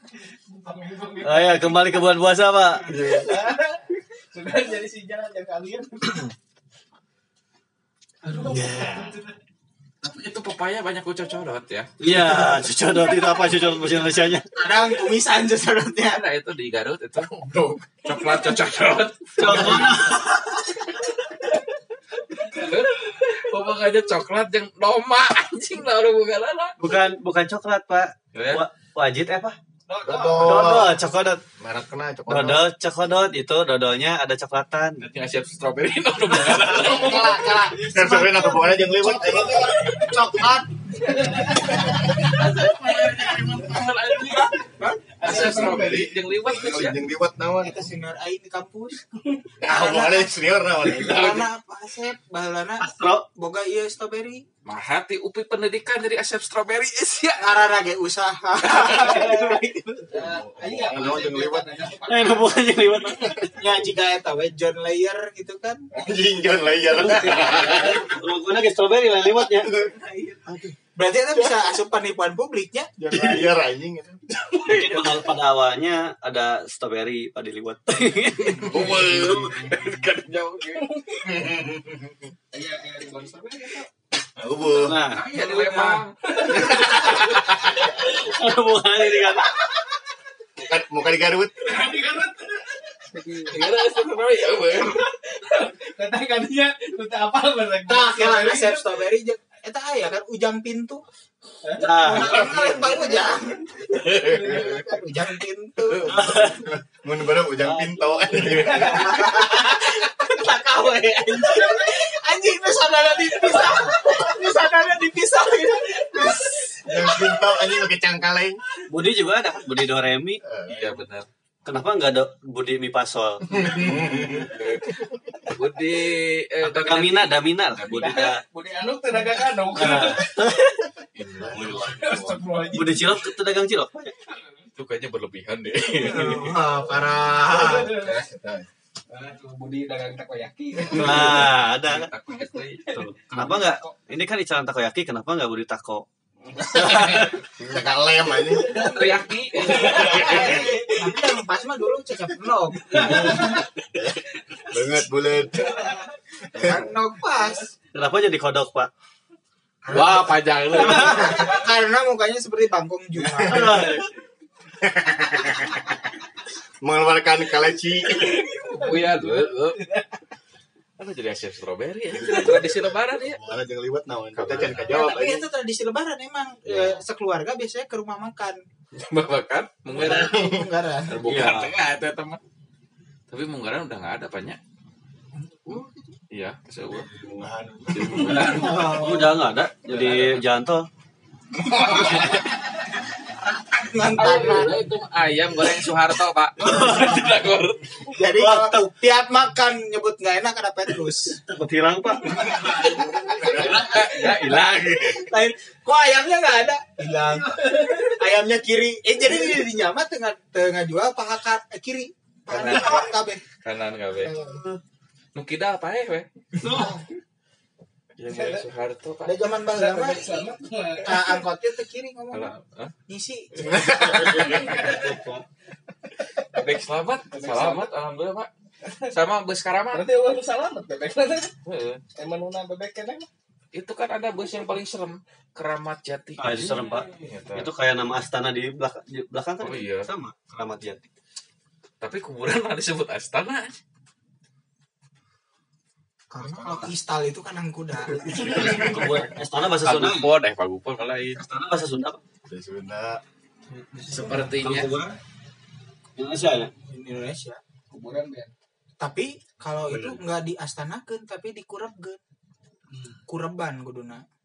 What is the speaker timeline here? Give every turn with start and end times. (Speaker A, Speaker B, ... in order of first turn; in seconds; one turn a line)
Speaker A: 0.5-2.0
Speaker B: 1.2-2.9
Speaker C: 2.9-3.3
Speaker A: 2.9-6.3
Speaker A: 8.2-9.3
Speaker B: 8.4-9.2
Speaker D: 10.0-11.9
Speaker B: 12.0-14.4
Speaker E: 12.2-12.6
Speaker A: 13.2-13.6
Speaker E: 14.5-16.2
Speaker D: 16.1-17.4
Speaker C: 17.2-18.4
Speaker D: 18.0-20.0
Speaker B: 19.4-20.7
Speaker D: 22.3-26.8
Speaker B: 26.8-29.6
Speaker D: 28.3-28.6
Speaker D: 29.9-30.7
Speaker A: 29.9-30.2
Speaker C: 30.0-31.0
Speaker B: 30.4-31.4
Speaker C: 31.6-32.6
Speaker B: 32.3-35.0
Speaker D: 35.0-37.5
Speaker E: 36.5-46.1
Speaker C: 37.8-40.4
Speaker A: 41.2-41.7
Speaker D: 42.2-44.6
Speaker A: 42.4-42.7
Speaker D: 45.2-47.0
Speaker C: 45.2-47.8
Speaker E: 47.6-49.1
Speaker C: 49.6-51.5
Speaker E: 49.6-50.3
Speaker E: 50.9-54.4
Speaker B: 52.8-53.2
Speaker D: 54.6-57.5
Speaker E: 57.4-60.0
Speaker D: 58.7-59.2
Speaker A: 58.9-62.8
Speaker C: 60.1-61.7
Speaker B: 62.0-63.5
Speaker E: 63.5-65.8
Speaker C: 65.9-68.0
Speaker B: 66.9-69.7
Speaker A: 67.4-67.9
Speaker D: 67.5-67.9
Speaker C: 69.7-69.9
Speaker E: 70.0-70.3
Speaker C: 70.5-70.8
Speaker E: 70.9-72.9
Speaker C: 73.0-74.8
Speaker B: 74.6-78.7
Speaker E: 78.5-80.0
Speaker D: 78.6-81.0
Speaker C: 78.7-79.5
Speaker A: 80.8-81.2
Speaker C: 81.2-82.3
Speaker A: 82.5-83.9
Speaker C: 84.4-85.0
Speaker B: 84.8-85.2
Speaker D: 84.9-87.9
Speaker E: 85.3-86.0
Speaker A: 86.3-88.3
Speaker B: 86.6-89.7
Speaker C: 90.6-91.8
Speaker A: 91.7-93.7
Speaker D: 93.1-95.1
Speaker A: 94.7-99.0
Speaker E: 97.8-101.0
Speaker A: 101.6-103.4
Speaker B: 101.8-102.5
Speaker E: 102.0-106.4
Speaker D: 103.9-104.8
Speaker A: 104.0-104.8
Speaker D: 105.9-106.1
Speaker C: 106.0-109.2
Speaker B: 106.2-106.6
Speaker A: 107.6-112.0
Speaker D: 108.4-109.0
Speaker E: 108.8-110.5
Speaker E: 111.2-116.5
Speaker A: 113.4-114.9
Speaker A: 115.7-117.6
Speaker C: 116.8-118.6
Speaker B: 118.9-120.4
Speaker C: 120.4-120.8
Speaker D: 120.7-121.3
Speaker A: 120.7-121.0
Speaker B: 121.6-123.7
Speaker C: 123.5-124.5
Speaker A: 123.6-124.3
Speaker D: 124.4-124.9
Speaker D: 125.5-127.4
Speaker B: 126.6-128.4
Speaker A: 127.8-130.8
Speaker B: 129.7-130.8
Speaker D: 131.1-132.4
Speaker C: 131.4-132.0
Speaker A: 131.8-133.3
Speaker B: 132.7-134.1
Speaker A: 134.3-134.7
Speaker D: 134.7-136.6
Speaker E: 136.1-138.0
Speaker C: 136.9-138.7
Speaker A: 137.5-138.2
Speaker A: 139.1-141.5
Speaker B: 140.9-142.1
Speaker D: 141.1-142.8
Speaker A: 142.9-143.9
Speaker B: 142.9-146.1
Speaker A: 146.6-147.0
Speaker D: 146.6-147.3
Speaker B: 146.7-147.3
Speaker C: 147.6-148.9
Speaker A: 148.6-151.1
Speaker D: 148.6-150.7
Speaker C: 149.9-150.6
Speaker E: 150.1-153.6
Speaker A: 152.9-153.6
Speaker C: 152.9-153.4
Speaker C: 153.9-155.9
Speaker A: 155.7-156.0
Speaker C: 156.5-156.9
Speaker E: 156.6-157.7
Speaker B: 157.9-158.9
Speaker E: 159.8-164.0
Speaker D: 159.9-161.5
Speaker C: 163.4-163.9
Speaker B: 163.4-164.1
Speaker C: 164.8-165.8
Speaker C: 166.8-168.4
Speaker A: 168.2-170.1
Speaker D: 168.7-169.8
Speaker D: 171.0-173.4
Speaker C: 172.1-175.4
Speaker D: 174.3-175.1
Speaker E: 174.9-178.6
Speaker D: 176.7-176.9
Speaker D: 178.9-180.5
Speaker C: 179.9-180.7
Speaker E: 180.1-181.2
Speaker D: 181.1-182.4
Speaker B: 181.2-181.7
Speaker D: 183.3-184.6
Speaker E: 185.3-186.1
Speaker D: 186.3-187.1
Speaker C: 187.2-188.6
Speaker D: 187.9-189.2
Speaker E: 188.4-189.4
Speaker B: 188.7-190.9
Speaker D: 189.9-190.4
Speaker E: 191.7-192.3
Speaker D: 191.9-192.4
Speaker E: 193.4-194.8
Speaker D: 194.2-198.1
Speaker B: 196.6-197.4
Speaker E: 198.1-201.4
Speaker B: 198.2-198.8
Speaker B: 201.5-202.6
Speaker E: 202.3-203.8
Speaker A: 202.4-203.0
Speaker D: 203.3-205.3
Speaker C: 203.4-203.8
Speaker E: 205.1-213.4
Speaker A: 207.6-208.2
Speaker D: 212.5-214.4
Speaker E: 214.2-214.7
Speaker B: 214.3-214.8
Speaker D: 215.3-216.3
Speaker E: 216.6-217.0
Speaker A: 216.6-217.1
Speaker D: 218.2-219.4
Speaker A: 218.3-218.7
Speaker E: 219.2-220.3
Speaker A: 219.7-221.4
Speaker E: 221.0-222.5
Speaker D: 222.3-222.9
Speaker E: 223.1-224.7
Speaker A: 223.9-225.4
Speaker D: 223.9-224.8
Speaker D: 226.4-228.5
Speaker A: 227.3-227.9
Speaker D: 229.1-230.1
Speaker A: 229.9-231.5
Speaker D: 231.6-232.0
Speaker A: 232.1-233.3
Speaker D: 233.7-237.7
Speaker B: 236.4-241.1
Speaker D: 239.6-240.1
Speaker D: 242.0-243.8
Speaker E: 246.3-248.9
Speaker B: 248.3-250.3
Speaker D: 249.8-251.4
Speaker B: 251.3-252.2
Speaker C: 252.5-253.2
Speaker A: 253.7-254.3
Speaker E: 254.1-254.5
Speaker B: 254.1-255.2
Speaker D: 254.2-254.9
Speaker B: 256.2-256.7
Speaker E: 256.9-257.6
Speaker A: 257.9-258.5
Speaker E: 259.0-262.2
Speaker B: 259.9-260.2
Speaker A: 262.9-263.2
Speaker E: 263.3-264.2